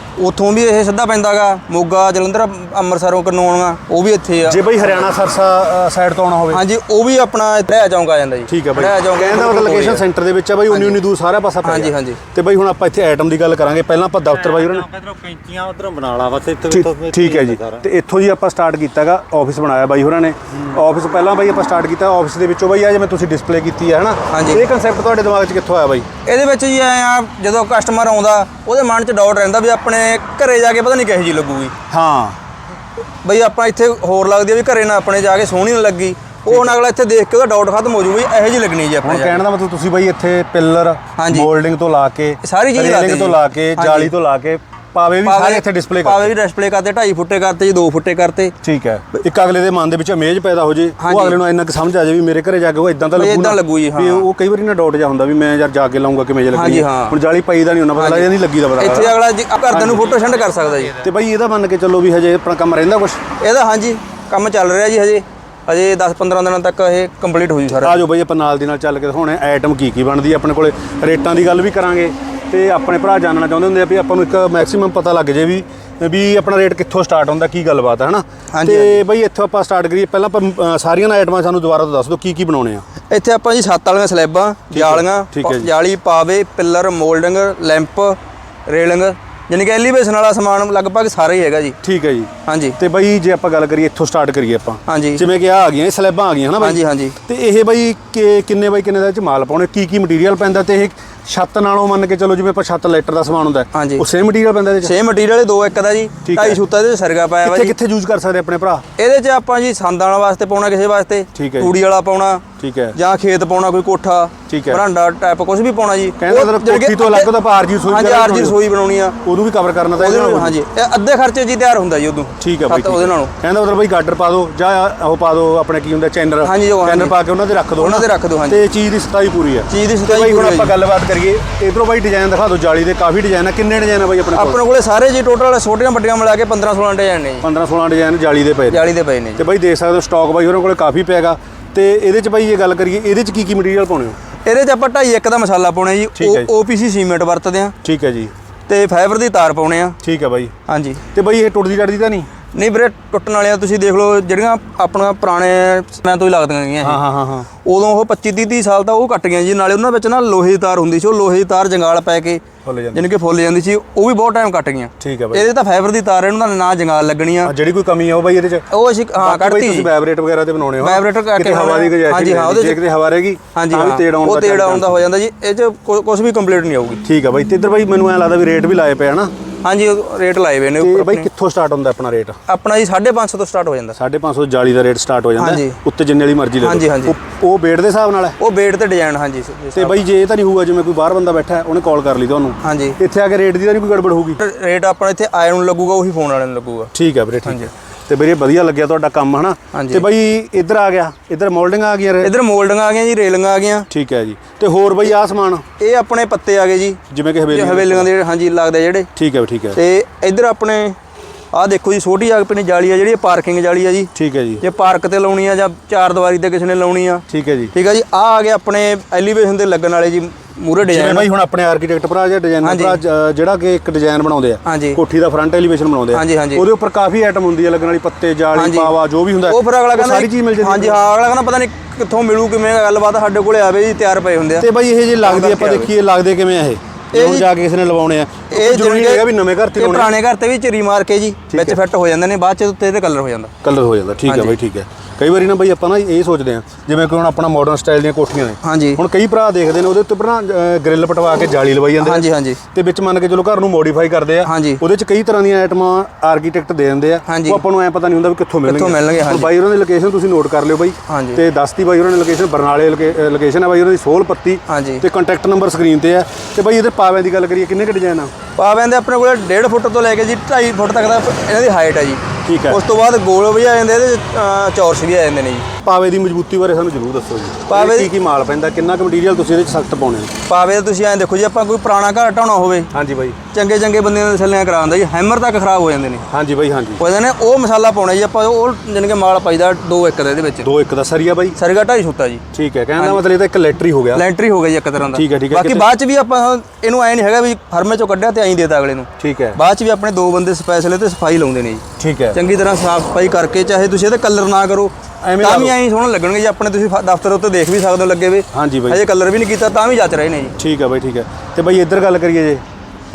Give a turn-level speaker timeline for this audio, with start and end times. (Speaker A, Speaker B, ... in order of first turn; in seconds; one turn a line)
Speaker A: 0.2-5.1
Speaker B: 4.5-6.6
Speaker A: 6.5-10.1
Speaker B: 8.5-14.9
Speaker A: 10.7-11.0
Speaker A: 11.6-12.2
Speaker C: 14.6-17.6
Speaker B: 16.6-26.1
Speaker A: 24.3-24.6
Speaker A: 26.2-31.7
Speaker B: 31.9-32.4
Speaker A: 33.2-39.4
Speaker B: 36.5-36.7
Speaker B: 39.0-46.3
Speaker A: 41.2-41.5
Speaker A: 42.4-44.1
Speaker A: 45.2-48.5
Speaker B: 48.6-60.1
Speaker A: 51.0-51.4
Speaker A: 53.1-54.3
Speaker A: 56.5-57.2
Speaker A: 57.9-61.0
Speaker B: 61.0-63.2
Speaker A: 63.4-68.0
Speaker B: 67.7-82.8
Speaker A: 78.5-79.0
Speaker A: 83.1-91.8
Speaker B: 84.7-85.7
Speaker B: 91.8-104.9
Speaker A: 92.4-92.8
Speaker A: 94.9-95.3
Speaker A: 96.6-97.2
Speaker A: 103.7-104.0
Speaker A: 104.8-107.7
Speaker B: 106.2-106.6
Speaker B: 107.4-108.8
Speaker A: 109.0-119.2
Speaker B: 111.3-111.7
Speaker B: 112.6-113.0
Speaker B: 114.5-114.8
Speaker B: 116.2-118.6
Speaker B: 119.2-120.6
Speaker A: 119.9-123.3
Speaker B: 122.4-134.6
Speaker A: 126.4-127.2
Speaker A: 127.7-128.7
Speaker A: 129.7-130.8
Speaker A: 134.3-137.5
Speaker B: 137.4-144.2
Speaker A: 138.7-139.4
Speaker A: 144.4-147.7
Speaker B: 146.2-146.5
Speaker B: 147.8-148.3
Speaker A: 148.7-150.0
Speaker B: 150.0-150.5
Speaker A: 150.7-151.0
Speaker B: 151.1-152.3
Speaker A: 152.5-157.0
Speaker B: 156.8-157.5
Speaker A: 157.6-167.5
Speaker B: 162.6-163.0
Speaker B: 165.0-165.5
Speaker B: 167.4-175.0
Speaker A: 168.7-169.9
Speaker A: 170.8-172.8
Speaker A: 173.5-177.0
Speaker B: 177.0-179.3
Speaker A: 179.6-181.3
Speaker B: 180.8-182.4
Speaker A: 182.5-184.0
Speaker B: 183.9-188.4
Speaker A: 185.4-185.8
Speaker A: 186.6-187.2
Speaker A: 188.4-190.0
Speaker B: 189.7-194.4
Speaker A: 192.6-193.0
Speaker A: 194.4-196.9
Speaker B: 196.9-202.3
Speaker A: 197.4-197.7
Speaker A: 199.7-200.0
Speaker A: 202.2-203.9
Speaker B: 203.9-205.7
Speaker A: 205.8-209.1
Speaker B: 207.1-208.1
Speaker B: 209.1-209.8
Speaker A: 209.7-211.0
Speaker A: 211.5-221.3
Speaker B: 214.1-214.6
Speaker B: 217.3-217.7
Speaker B: 220.8-231.0
Speaker A: 222.6-223.0
Speaker A: 224.6-225.0
Speaker A: 226.1-226.7
Speaker A: 228.5-234.7
Speaker B: 234.6-240.1
Speaker A: 235.2-235.9
Speaker A: 237.1-237.5
Speaker A: 238.5-243.5
Speaker B: 241.5-241.8
Speaker B: 243.6-268.3
Speaker A: 244.2-244.6
Speaker A: 248.6-249.0
Speaker A: 252.0-252.6
Speaker A: 254.4-254.8
Speaker A: 257.3-257.6
Speaker A: 258.6-259.5
Speaker A: 261.1-261.4
Speaker A: 264.7-265.0
Speaker A: 268.6-275.7
Speaker B: 272.4-272.8
Speaker B: 275.8-280.3
Speaker A: 277.7-278.1
Speaker A: 280.5-282.9
Speaker B: 282.9-283.4
Speaker A: 283.5-286.2
Speaker B: 286.3-287.0
Speaker A: 287.0-290.7
Speaker B: 290.6-291.6
Speaker A: 291.6-292.4
Speaker B: 292.5-294.2
Speaker A: 293.0-293.2
Speaker A: 294.1-310.6
Speaker B: 295.1-295.9
Speaker B: 299.2-299.6
Speaker B: 302.0-302.4
Speaker B: 305.2-305.8
Speaker B: 308.5-309.0
Speaker B: 310.6-312.6